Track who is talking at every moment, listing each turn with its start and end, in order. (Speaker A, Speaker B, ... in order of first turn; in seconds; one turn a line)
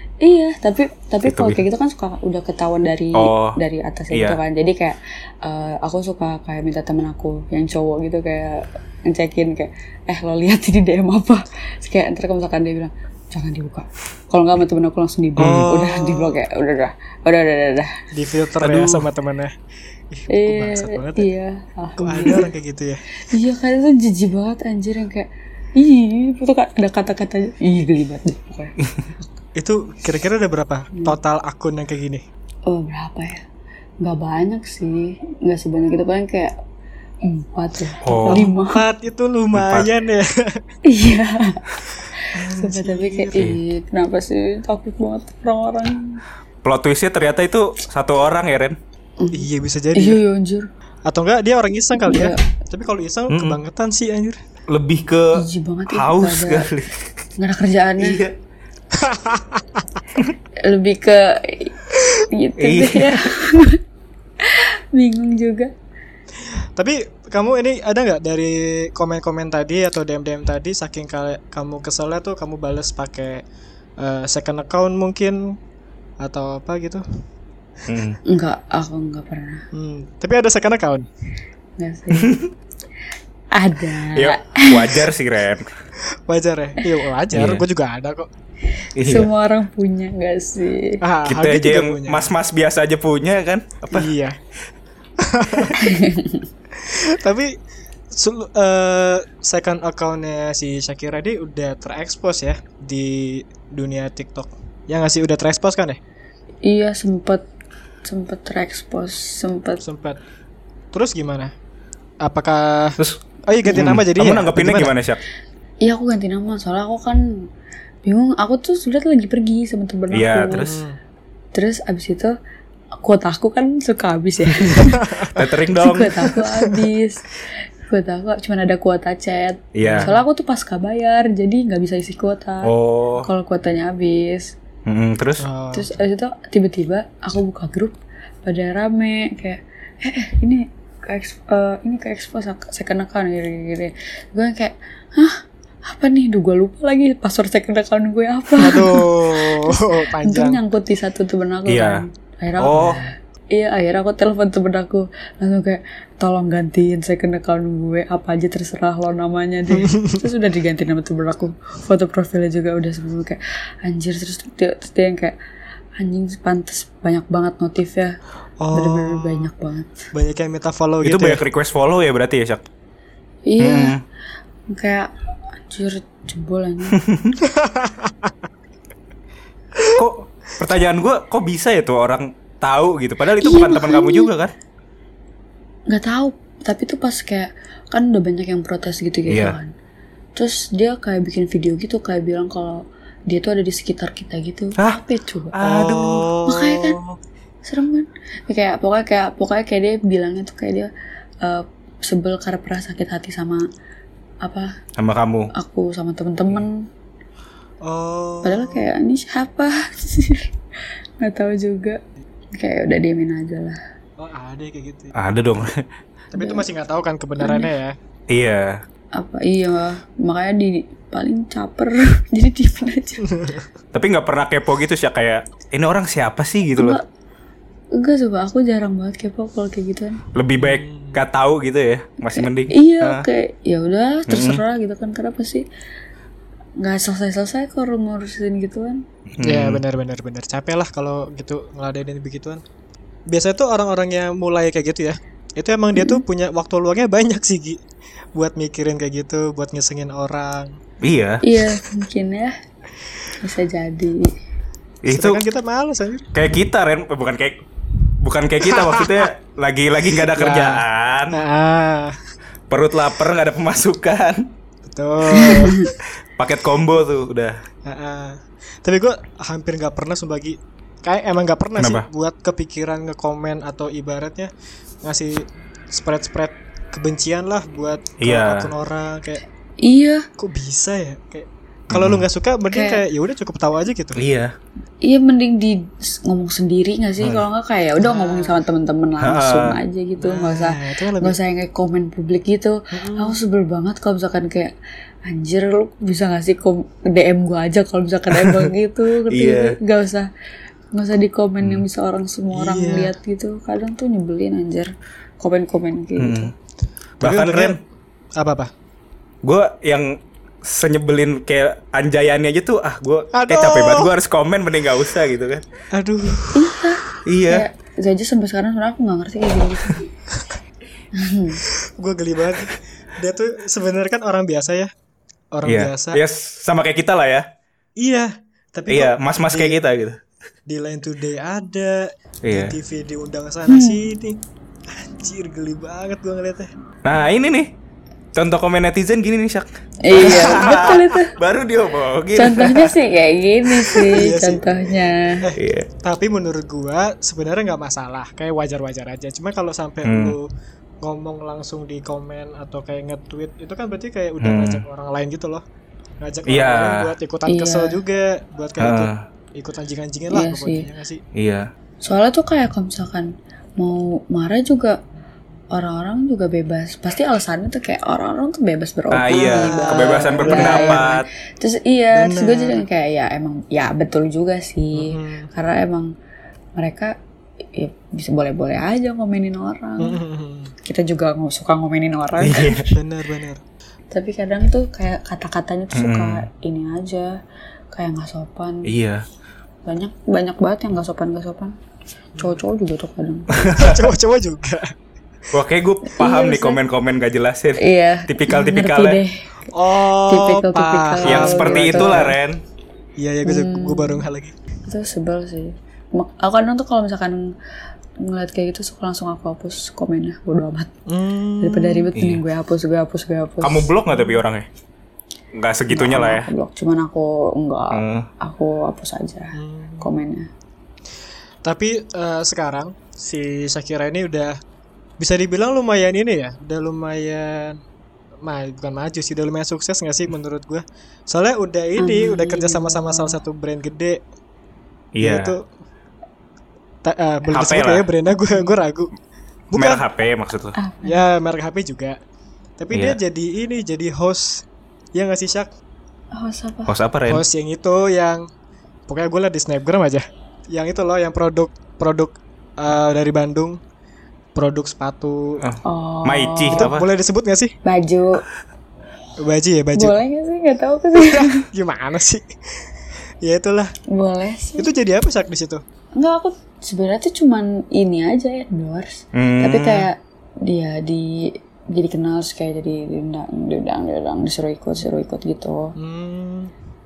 Speaker A: 0.2-18.0
Speaker B: 1.2-1.6
Speaker B: 3.1-3.6
Speaker B: 4.1-4.4
Speaker C: 15.4-16.4
Speaker C: 18.1-19.5
Speaker B: 18.6-19.1
Speaker C: 20.1-21.3
Speaker A: 20.3-22.5
Speaker C: 22.0-23.0
Speaker A: 23.3-29.2
Speaker C: 29.6-32.2
Speaker A: 32.7-33.4
Speaker A: 34.0-36.5
Speaker A: 37.2-38.8
Speaker B: 38.0-38.5
Speaker C: 38.3-40.6
Speaker B: 39.5-39.9
Speaker A: 40.8-46.2
Speaker C: 42.3-43.5
Speaker B: 46.6-48.8
Speaker A: 49.2-50.7
Speaker C: 49.3-50.2
Speaker C: 51.0-54.4
Speaker A: 52.0-52.4
Speaker B: 53.3-53.6
Speaker B: 54.7-55.3
Speaker A: 55.3-56.7
Speaker B: 55.9-57.0
Speaker A: 57.4-58.2
Speaker B: 58.0-58.3
Speaker C: 58.9-59.8
Speaker A: 60.6-63.8
Speaker B: 62.6-63.2
Speaker A: 64.4-65.7
Speaker C: 66.5-73.4
Speaker C: 74.0-75.5
Speaker C: 76.2-77.0
Speaker B: 77.9-78.2
Speaker A: 78.2-79.6
Speaker C: 79.7-81.0
Speaker A: 81.8-82.4
Speaker B: 82.1-82.5
Speaker A: 83.5-85.1
Speaker B: 84.1-85.7
Speaker C: 86.3-88.3
Speaker B: 87.3-87.6
Speaker A: 88.8-91.0
Speaker B: 89.0-89.3
Speaker C: 91.0-92.3
Speaker B: 91.2-94.1
Speaker C: 93.9-94.3
Speaker C: 95.2-95.9
Speaker A: 95.8-96.5
Speaker C: 96.7-97.5
Speaker C: 98.1-106.0
Speaker A: 106.6-107.4
Speaker A: 108.0-109.8
Speaker C: 109.8-110.2
Speaker C: 110.9-111.5
Speaker C: 112.2-114.9
Speaker B: 113.0-115.2
Speaker A: 115.8-117.5
Speaker A: 118.0-120.7
Speaker B: 120.1-120.8
Speaker C: 120.6-121.0
Speaker A: 121.5-122.3
Speaker A: 123.0-134.5
Speaker C: 124.8-125.3
Speaker B: 125.3-126.3
Speaker C: 126.3-126.8
Speaker B: 129.7-130.1
Speaker C: 129.8-130.1
Speaker B: 132.6-133.3
Speaker B: 134.8-135.4
Speaker C: 135.4-135.9
Speaker A: 135.7-165.3
Speaker C: 148.6-150.6
Speaker B: 151.7-152.0
Speaker B: 152.6-153.0
Speaker C: 152.7-152.9
Speaker C: 159.7-160.2
Speaker A: 166.0-168.2
Speaker C: 168.6-169.5
Speaker A: 168.7-170.1
Speaker C: 170.1-171.4
Speaker B: 171.0-172.6
Speaker A: 173.4-173.9
Speaker B: 173.6-174.0
Speaker A: 174.7-175.1
Speaker A: 175.7-177.0
Speaker B: 177.0-177.4
Speaker C: 177.4-178.3
Speaker B: 179.9-184.5
Speaker A: 183.4-184.3
Speaker A: 185.9-189.7
Speaker B: 189.3-189.6
Speaker A: 190.3-195.6
Speaker B: 195.5-196.4
Speaker C: 195.6-196.8
Speaker A: 196.4-197.0
Speaker A: 197.6-200.9
Speaker A: 201.4-203.6
Speaker A: 204.4-204.7
Speaker B: 204.9-205.5
Speaker A: 205.5-206.8
Speaker C: 207.8-208.9
Speaker A: 208.4-210.5
Speaker A: 211.2-212.0
Speaker A: 212.6-213.8
Speaker C: 214.2-215.2
Speaker B: 215.1-215.8
Speaker C: 216.3-217.9
Speaker A: 216.3-216.7
Speaker A: 217.4-217.7
Speaker B: 218.3-218.8
Speaker A: 219.2-223.3
Speaker C: 223.3-223.6
Speaker B: 223.9-227.0
Speaker A: 226.7-227.0
Speaker A: 227.9-230.2
Speaker B: 230.3-233.2
Speaker C: 230.6-231.2
Speaker A: 232.3-235.6
Speaker B: 234.3-234.6
Speaker A: 236.8-239.0
Speaker B: 239.3-239.8
Speaker C: 239.4-242.6
Speaker C: 243.3-247.8
Speaker A: 245.9-246.2
Speaker C: 248.3-250.7
Speaker B: 251.0-251.4
Speaker A: 251.4-252.6
Speaker A: 253.4-254.3
Speaker B: 255.0-255.4
Speaker C: 255.1-256.3
Speaker B: 256.3-257.6
Speaker B: 258.2-261.4
Speaker C: 258.7-259.2
Speaker C: 260.2-262.2
Speaker B: 262.7-264.5
Speaker C: 264.8-265.9
Speaker A: 265.3-265.8
Speaker B: 266.4-267.6
Speaker C: 267.9-274.5
Speaker B: 271.8-272.1
Speaker C: 275.0-279.4
Speaker B: 278.2-278.7
Speaker A: 279.8-280.2
Speaker C: 280.4-284.2
Speaker B: 281.9-282.2
Speaker A: 282.7-283.0
Speaker B: 284.1-284.5
Speaker A: 285.0-294.7
Speaker C: 288.0-288.6
Speaker B: 289.2-289.8
Speaker C: 290.2-291.4
Speaker C: 292.9-293.4
Speaker A: 295.2-300.3
Speaker B: 298.3-298.7
Speaker B: 299.3-299.8
Speaker A: 300.9-306.5
Speaker C: 302.5-303.1
Speaker B: 306.2-306.5
Speaker B: 307.2-307.8
Speaker C: 307.2-307.8
Speaker C: 308.4-308.7
Speaker B: 309.4-315.6
Speaker C: 313.3-314.1
Speaker C: 315.9-316.7
Speaker A: 316.5-320.1
Speaker B: 317.2-317.6
Speaker A: 321.1-321.6
Speaker C: 321.8-324.9
Speaker C: 325.5-326.2
Speaker B: 325.6-327.4
Speaker C: 328.0-329.8
Speaker B: 328.9-330.2
Speaker C: 330.7-336.7
Speaker B: 332.4-332.8
Speaker A: 333.7-334.1
Speaker B: 337.0-337.7
Speaker B: 338.3-342.9
Speaker A: 340.0-341.3
Speaker C: 340.2-341.0
Speaker A: 342.3-345.4
Speaker C: 344.1-350.5
Speaker B: 345.6-345.9
Speaker B: 350.0-350.4
Speaker C: 351.0-355.6
Speaker B: 354.4-354.8
Speaker C: 356.2-361.2
Speaker B: 356.4-357.1
Speaker A: 357.4-358.0
Speaker B: 358.8-359.2
Speaker A: 360.3-360.9
Speaker B: 361.3-361.7
Speaker A: 362.0-365.0
Speaker A: 365.7-376.1
Speaker B: 369.1-371.3
Speaker C: 369.3-371.1
Speaker C: 372.1-372.8
Speaker C: 374.9-375.5
Speaker A: 376.8-377.1
Speaker A: 377.7-380.2
Speaker C: 380.0-380.7
Speaker A: 380.8-382.9
Speaker B: 382.4-382.9
Speaker C: 382.9-383.6
Speaker A: 384.1-387.4
Speaker B: 385.9-386.4
Speaker A: 387.9-388.9
Speaker B: 388.9-389.2
Speaker A: 389.9-391.7
Speaker C: 392.4-392.6
Speaker A: 392.4-393.9
Speaker B: 393.5-394.0
Speaker C: 393.7-394.9
Speaker B: 395.5-399.2
Speaker A: 396.1-396.8
Speaker A: 397.8-402.3
Speaker C: 399.7-402.3
Speaker B: 401.2-402.6
Speaker C: 403.2-404.5
Speaker A: 403.4-404.2
Speaker A: 404.9-407.4
Speaker A: 408.2-410.9
Speaker C: 411.1-412.1
Speaker A: 411.6-414.4
Speaker B: 412.1-412.4
Speaker B: 413.6-414.7
Speaker B: 415.5-416.5
Speaker A: 415.9-420.5
Speaker B: 417.9-418.3
Speaker C: 419.5-420.1
Speaker C: 421.6-424.6
Speaker C: 425.2-427.8
Speaker C: 428.4-434.2
Speaker A: 432.0-433.4
Speaker B: 435.1-435.5
Speaker C: 435.2-435.6
Speaker C: 437.0-439.1
Speaker B: 437.5-438.1
Speaker C: 439.7-440.0
Speaker B: 439.7-440.8
Speaker A: 440.8-441.2
Speaker C: 441.0-442.2
Speaker C: 442.8-445.7
Speaker B: 442.9-443.2
Speaker A: 446.3-446.9
Speaker B: 446.9-447.4
Speaker C: 447.3-448.5
Speaker C: 449.1-453.8
Speaker C: 454.5-455.6
Speaker B: 455.6-457.1
Speaker A: 455.8-456.9
Speaker C: 456.7-457.8
Speaker A: 457.8-458.4
Speaker C: 459.4-460.2
Speaker A: 459.9-461.6
Speaker C: 461.2-462.9
Speaker C: 463.4-463.9
Speaker A: 464.1-464.9
Speaker C: 464.8-465.8
Speaker A: 466.1-475.9
Speaker B: 469.3-470.1
Speaker C: 475.9-476.7